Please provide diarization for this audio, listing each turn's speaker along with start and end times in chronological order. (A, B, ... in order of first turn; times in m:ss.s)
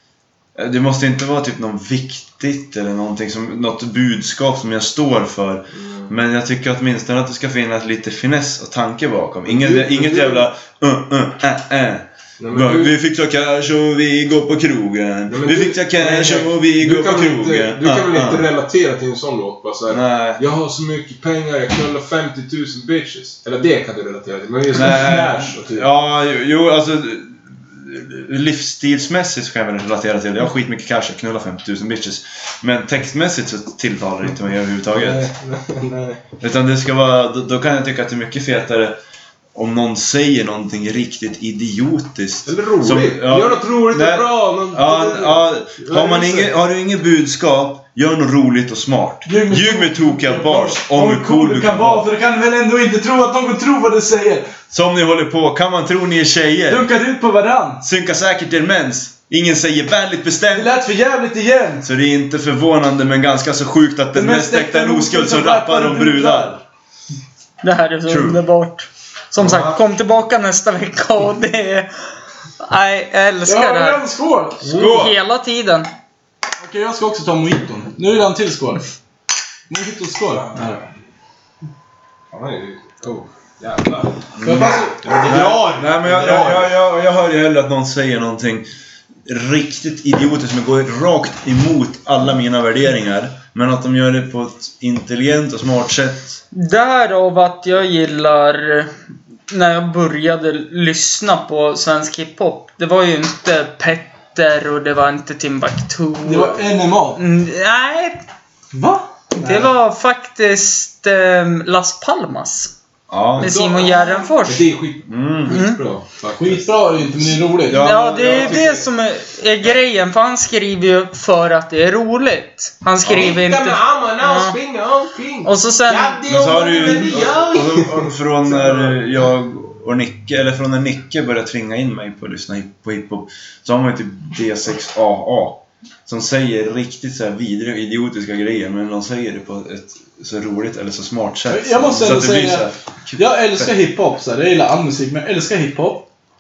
0:00.6-0:18.5 A
0:05.8-0:06.1 B
0:09.5-0:10.5 B
0:12.4-0:12.9 B
0:15.3-0:25.9 B
0:19.9-0:20.4 A
0:24.7-0:35.3 A
0:34.9-0:36.2 B
0:36.4-0:39.0 A
0:39.5-0:52.0 A
0:42.4-0:46.5 B
0:49.2-0:54.6 C
0:54.7-0:56.9 A
0:56.7-0:57.9 C
0:57.8-1:00.7 A
1:00.5-1:01.9 C
1:01.8-1:06.6 A
1:04.1-1:06.6 C
1:07.6-1:11.9 D
1:08.1-1:08.4 A
1:09.4-1:09.8 A
1:12.6-1:14.0 D
1:13.4-1:14.6 C
1:14.6-1:15.2 A
1:14.7-1:15.9 D
1:16.6-1:18.8 C
1:19.7-1:20.9 C
1:22.3-1:26.7 B
1:24.4-1:28.7 A
1:24.4-1:25.0 C
1:29.2-1:36.4 A
1:36.5-1:38.9 D
1:39.5-1:46.6 D
1:46.2-1:47.2 C
1:47.2-1:48.2 D
1:48.7-1:49.7 C
1:49.4-1:52.7 D
1:53.1-1:53.5 A
1:53.4-1:54.7 D
1:53.4-1:57.4 B
1:55.1-1:55.6 A
1:55.5-1:55.8 D
1:56.4-1:57.9 C
1:57.6-1:58.6 A
1:57.7-2:04.6 D
1:58.2-1:58.9 B
2:03.0-2:03.3 A
2:03.0-2:09.0 B
2:05.4-2:06.2 D
2:06.3-2:23.7 A
2:21.5-2:26.1 C